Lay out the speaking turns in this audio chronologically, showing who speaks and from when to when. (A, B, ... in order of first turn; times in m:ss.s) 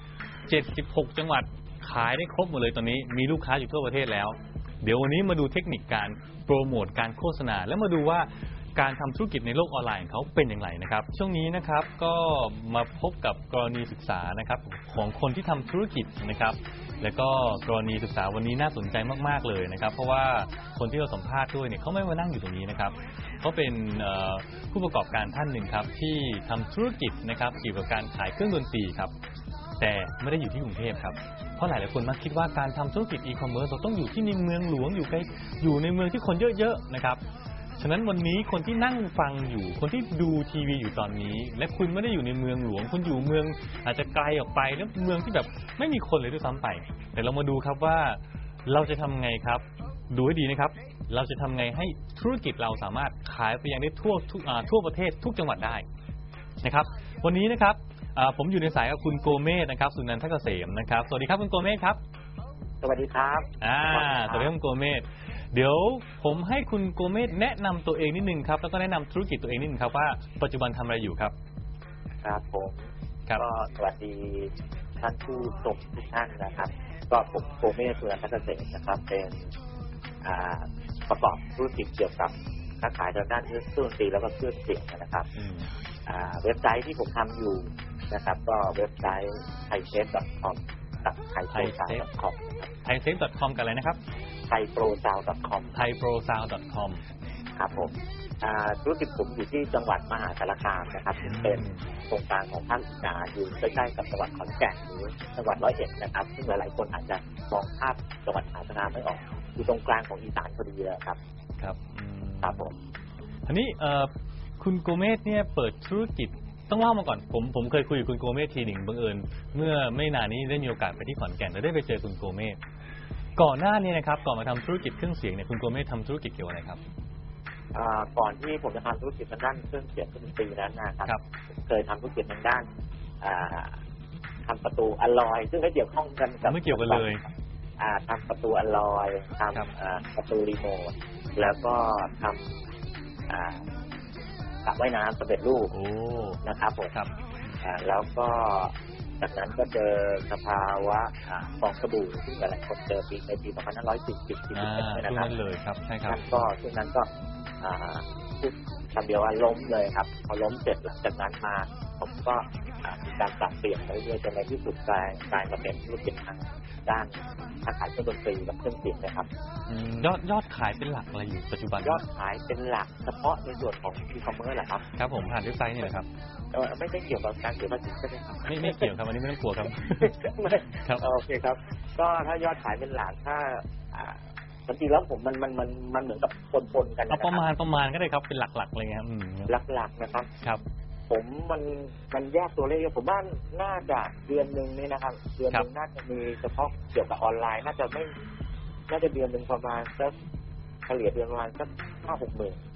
0:00.5-0:29.1 A
0:29.8-0:37.2 A
0:37.8-0:55.8 A
0:56.6-1:02.0 A
1:02.8-1:04.5 B
1:03.6-1:11.3 A
1:12.2-1:12.8 B
1:13.4-1:19.5 B
1:20.2-1:25.3 B
1:25.3-1:25.7 A
1:26.0-1:32.7 B
1:31.5-1:32.0 A
1:32.8-1:34.0 A
1:34.5-1:35.8 B
1:35.7-1:37.0 A
1:37.6-1:51.2 B
1:41.2-1:41.8 A
1:51.6-1:52.7 A
1:52.4-1:52.7 B
1:53.5-2:02.6 A
2:03.4-2:06.8 A
2:07.7-2:11.1 B
2:11.6-2:12.6 B
2:13.2-2:13.7 B
2:14.4-2:17.1 B
2:16.4-2:17.2 A
2:17.8-2:22.4 B
2:23.3-2:23.6 B
2:24.6-2:25.7 B
2:25.7-2:26.4 A
2:26.4-2:26.9 B
2:27.6-2:35.3 B
2:34.5-2:36.4 A
2:36.1-2:37.1 B
2:37.6-2:49.3 B
2:49.7-2:52.0 A
2:51.8-2:54.8 B
2:55.0-2:56.1 A
2:56.5-2:58.9 B
2:58.5-3:01.0 A
3:00.0-3:07.4 B
3:07.1-3:09.5 A
3:09.5-3:10.3 B
3:11.1-3:18.1 B
3:18.9-3:20.1 B
3:20.9-3:22.6 B